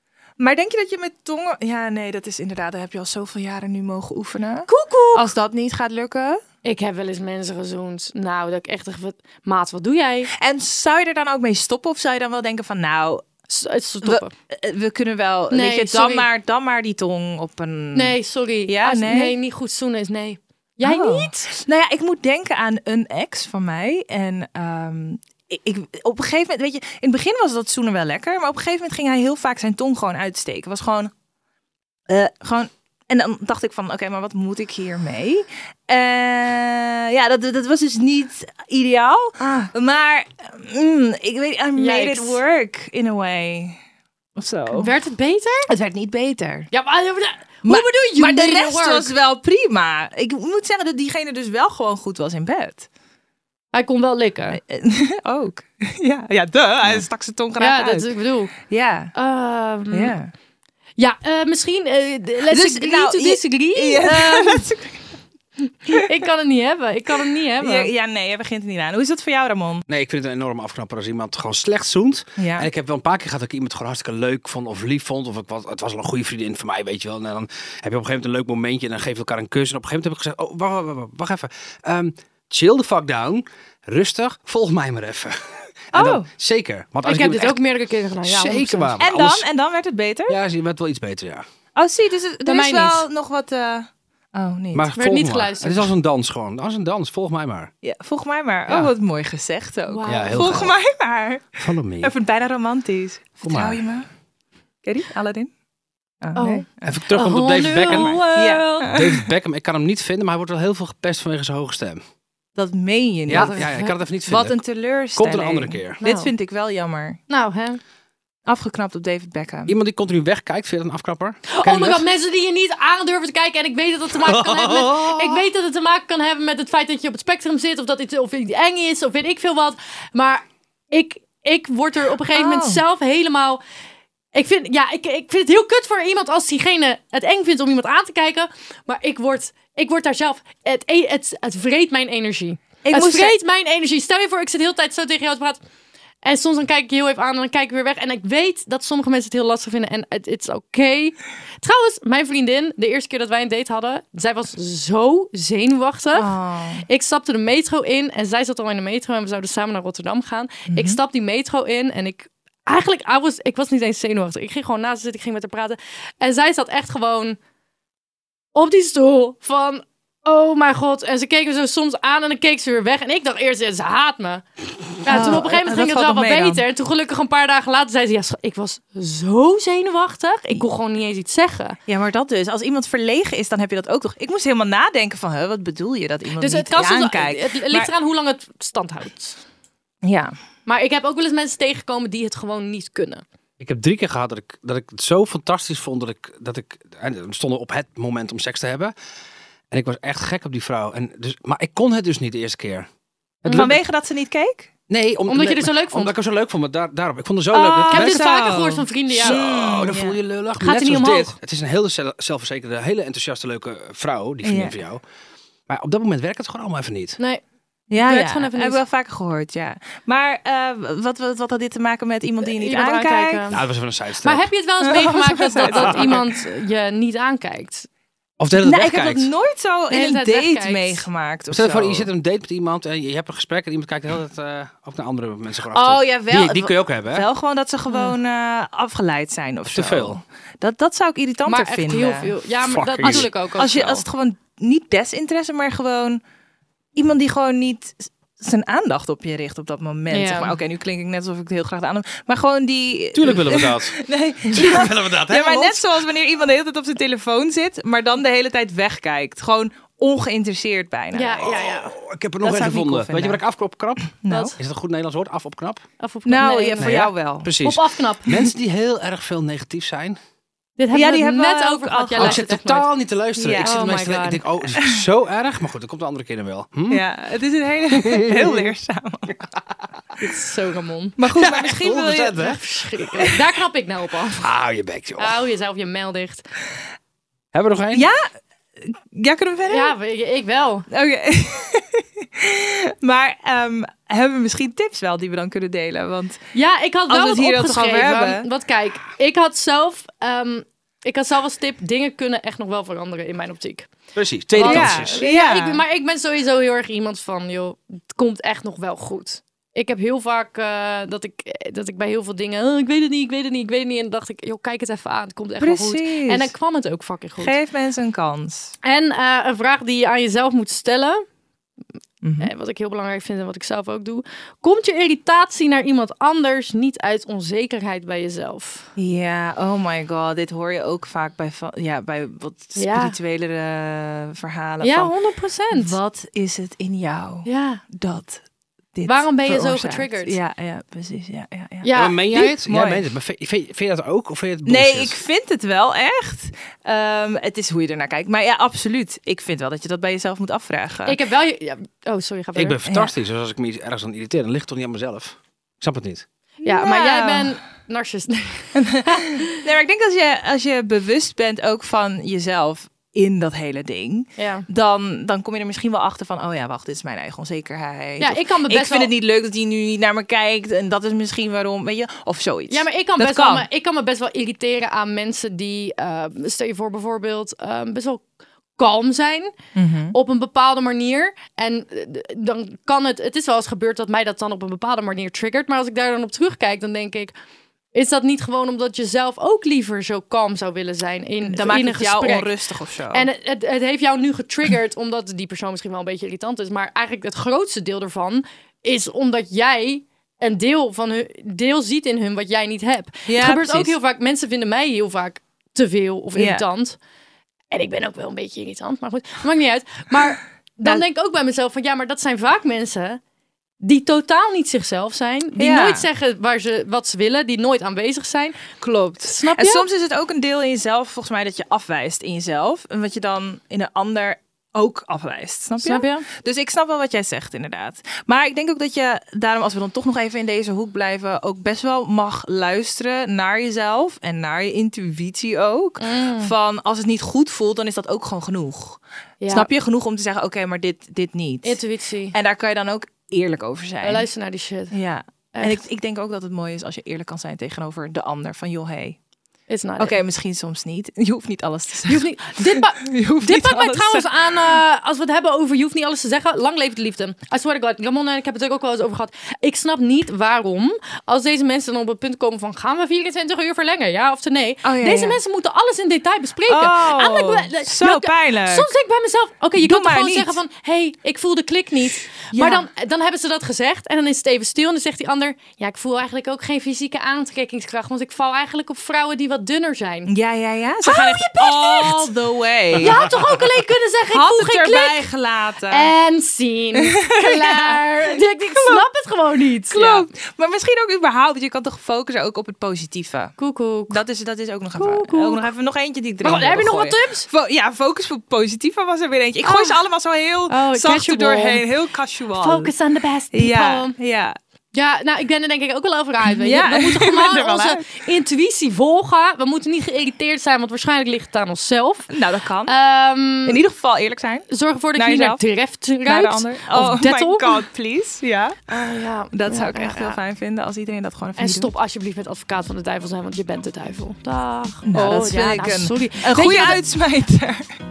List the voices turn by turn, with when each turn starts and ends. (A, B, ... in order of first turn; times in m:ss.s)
0:00.4-0:06.4 A
0:04.7-0:05.3 B
0:06.6-0:10.3 B
0:10.3-0:13.2 A
0:13.5-0:14.3 B
0:14.0-0:18.2 A
0:15.5-0:16.3 B
0:18.0-0:21.6 B
0:18.7-0:19.4 A
0:20.8-0:31.1 A
0:32.1-0:43.8 A
0:41.8-0:42.4 B
0:44.4-0:44.9 A
0:44.7-0:45.7 B
0:45.7-0:46.7 A
0:46.7-0:49.1 B
0:47.6-0:52.9 A
0:53.7-0:54.6 B
0:54.5-0:59.1 A
0:57.6-0:58.5 B
0:59.1-1:00.2 B
0:59.9-1:00.3 A
1:01.0-1:04.7 B
1:02.5-1:05.2 A
1:05.9-1:07.9 B
1:07.6-1:09.8 A
1:09.9-1:27.6 C
1:12.4-1:12.7 A
1:25.9-1:26.3 A
1:27.0-1:29.0 B
1:28.2-1:29.5 C
1:29.0-1:30.4 A
1:30.3-1:31.4 C
1:31.8-1:34.9 A
1:32.4-1:33.1 B
1:34.7-1:37.7 C
1:34.9-1:35.9 B
1:37.8-1:44.1 A
1:39.9-1:40.7 B
1:40.1-1:40.8 C
1:41.6-1:42.1 C
1:43.4-1:43.8 C
1:44.8-1:45.5 A
1:46.2-1:46.9 A
1:46.4-1:48.9 B
1:46.8-1:48.2 C
1:47.8-1:49.2 A
1:48.9-1:52.0 C
1:52.6-1:53.6 A
1:53.3-1:54.6 C
1:53.3-1:54.0 B
1:54.3-1:57.2 A
1:55.2-1:56.0 C
1:56.0-1:56.3 B
1:57.3-1:57.8 B
1:58.5-1:59.8 A
1:59.7-2:02.0 C
2:01.5-2:13.6 B
2:04.2-2:05.4 C
2:12.3-2:12.8 A
2:14.3-2:25.6 B
2:22.8-2:23.4 A
2:26.2-2:36.3 B
2:36.1-2:36.8 A
2:36.9-2:47.4 B
2:40.7-2:41.0 A
2:48.6-2:54.4 B
2:55.0-3:01.8 B
2:55.1-2:56.6 A
3:01.9-3:07.9 A
3:06.4-3:09.4 B
3:10.0-3:10.3 A
3:10.7-3:13.2 B
3:13.6-3:18.9 C
3:19.7-3:22.9 C
3:23.4-3:23.8 C
3:23.5-3:23.8 B
3:23.5-3:24.7 A
3:24.9-3:28.6 C
3:25.3-3:26.1 B
3:27.5-3:29.4 B
3:27.7-3:30.2 A
3:29.1-3:35.0 C
3:30.6-3:31.4 B
3:34.4-3:34.8 A
3:35.7-3:37.2 C
3:37.9-3:43.4 A
3:38.0-3:38.8 B
3:42.4-3:43.6 B
3:43.5-3:44.5 C
3:44.2-3:47.9 B
3:44.8-3:46.3 A
3:45.6-3:46.2 C
3:48.4-3:49.3 C
3:48.6-3:52.1 A
3:49.9-3:51.0 B
3:51.5-3:57.3 C
3:55.7-4:02.3 A
3:59.7-4:00.2 C
4:01.5-4:04.0 B
4:02.6-4:03.3 C
4:03.0-4:06.2 A
4:07.0-4:21.5 A
4:10.1-4:10.6 B
4:13.1-4:14.0 C
4:14.5-4:15.8 C
4:21.1-4:22.0 B
4:21.4-4:25.8 C
4:22.4-4:23.4 A
4:24.1-4:24.6 A
4:24.3-4:24.6 B
4:26.0-4:27.1 B
4:26.2-4:27.6 A
4:26.8-4:30.2 C
4:27.6-4:28.5 B
4:30.8-4:32.9 B
4:30.9-4:32.4 A
4:32.2-4:37.0 C
4:33.4-4:33.7 A
4:33.6-4:34.4 B
4:34.8-4:35.0 A
4:36.9-4:39.4 A
4:38.0-4:38.7 C
4:40.2-4:41.2 B
4:41.2-4:42.6 A
4:41.2-4:42.6 C
4:42.4-4:44.5 B
4:44.4-4:45.4 C
4:45.2-4:46.4 B
4:47.5-4:48.1 C
4:47.9-4:48.3 A
4:48.8-4:50.0 A
4:49.7-4:50.9 B
4:50.9-4:56.4 A
4:56.5-5:03.9 B
4:57.1-4:58.5 A
5:04.2-5:05.1 C
5:04.5-5:05.8 A
5:04.6-5:17.6 B
5:15.6-5:16.5 A
5:17.4-5:18.8 A
5:18.8-5:21.2 B
5:22.2-5:22.5 A
5:22.4-5:28.9 B
5:29.0-5:35.1 A
5:32.8-5:33.2 B
5:34.8-5:36.0 B
5:35.7-5:38.4 A
5:37.4-5:37.8 B
5:38.9-5:43.0 A
5:39.1-5:40.4 B
5:41.8-5:42.5 B
5:41.9-5:45.2 C
5:44.7-5:51.2 A
5:51.1-5:52.8 B
5:52.6-5:56.3 C
5:52.8-5:53.1 A
5:56.6-5:59.6 B
5:56.6-5:57.5 A
5:58.8-6:13.7 A
6:04.4-6:04.7 B
6:08.2-6:09.1 B
6:12.7-6:18.2 B
6:18.8-6:19.6 B
6:19.8-6:20.2 A
6:20.1-6:27.3 B
6:27.9-6:32.5 B
6:31.4-6:33.3 A
6:33.1-6:47.0 B
6:43.3-6:44.0 A
6:46.4-6:46.6 A
6:47.7-6:53.2 B
6:53.8-6:59.9 B
6:55.6-6:56.0 A
6:58.8-7:21.8 A
7:05.8-7:06.3 B
7:16.0-7:16.5 B
7:19.4-7:19.7 B
7:21.6-7:22.4 B
7:22.3-7:24.3 A
7:24.0-7:24.9 B
7:24.9-7:29.2 A
7:25.5-7:25.8 B
7:29.7-7:30.2 B
7:30.0-7:34.8 A
7:32.1-8:00.3 B
7:44.8-7:45.4 A
7:46.7-7:48.9 A
7:49.8-7:50.6 A
7:52.5-7:52.9 A
8:00.3-8:03.2 A
8:01.0-8:02.3 B
8:03.0-8:05.3 B
8:04.3-8:06.1 A
8:05.9-8:10.3 B
8:07.0-8:09.0 A
8:09.9-8:13.6 A
8:13.6-8:14.2 B
8:14.1-8:22.9 A
8:15.0-8:15.7 B
8:16.4-8:17.5 B
8:19.6-8:20.0 B
8:20.7-8:21.9 B
8:22.6-8:24.2 B
8:23.5-8:24.6 A
8:24.9-8:32.3 B
8:26.5-8:28.2 A
8:32.3-8:32.9 A
8:32.9-8:33.8 B
8:33.7-8:35.6 A
8:34.7-8:37.8 B
8:36.2-8:38.8 A
8:38.9-8:40.4 B
8:39.5-8:41.9 A
8:41.6-8:47.0 B
8:45.0-8:47.9 A